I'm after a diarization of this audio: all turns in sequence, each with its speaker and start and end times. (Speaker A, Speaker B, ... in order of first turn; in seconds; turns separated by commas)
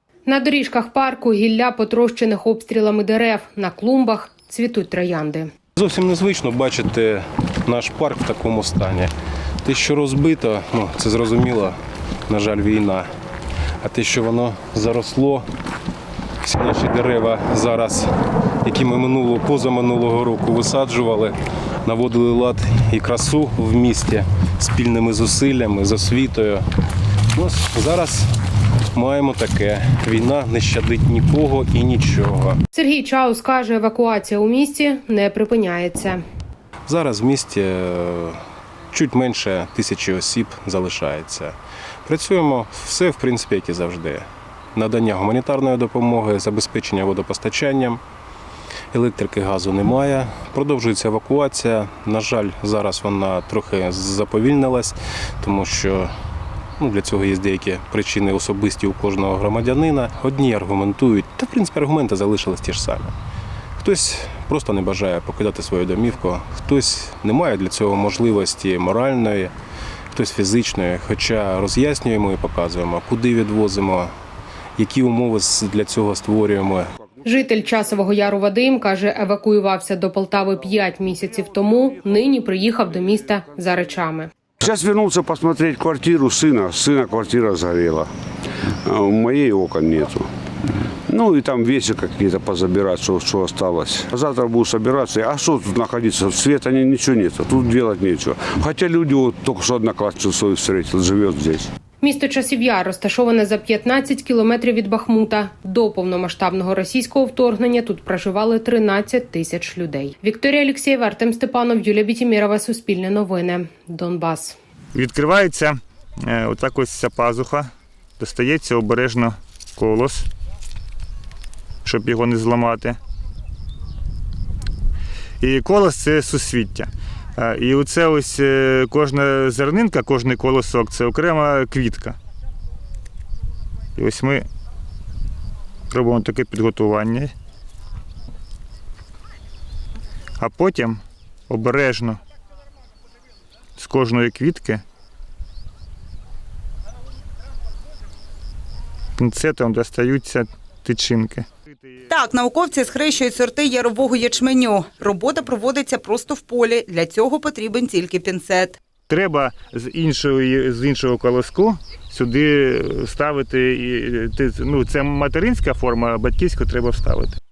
Speaker A: 0.2-5.5, Speaker B: 5.8-9.1, Speaker B: 9.6-11.8, Speaker B: 12.3-13.1, Speaker B: 13.8-15.4, Speaker B: 16.4-18.1, Speaker B: 18.6-26.6, Speaker B: 27.3-28.3, Speaker B: 28.9-32.6, Speaker A: 32.7-36.2, Speaker B: 36.9-38.4, Speaker B: 38.9-48.0, Speaker B: 48.9-56.1, Speaker B: 56.8-63.1, Speaker B: 63.8-69.5, Speaker B: 70.1-74.1, Speaker B: 74.8-76.9, Speaker A: 77.2-84.3, Speaker C: 84.6-88.1, Speaker C: 88.8-90.3, Speaker C: 91.1-101.7, Speaker A: 102.0-114.6, Speaker D: 114.9-115.8, Speaker D: 116.2-117.7, Speaker D: 118.2-120.2, Speaker D: 121.8-123.0, Speaker D: 125.4-132.2, Speaker D: 134.0-134.4, Speaker D: 135.9-137.3, Speaker D: 140.4-142.2, Speaker D: 143.8-144.8, Speaker D: 149.2-151.4, Speaker E: 152.1-158.8, Speaker D: 159.1-167.4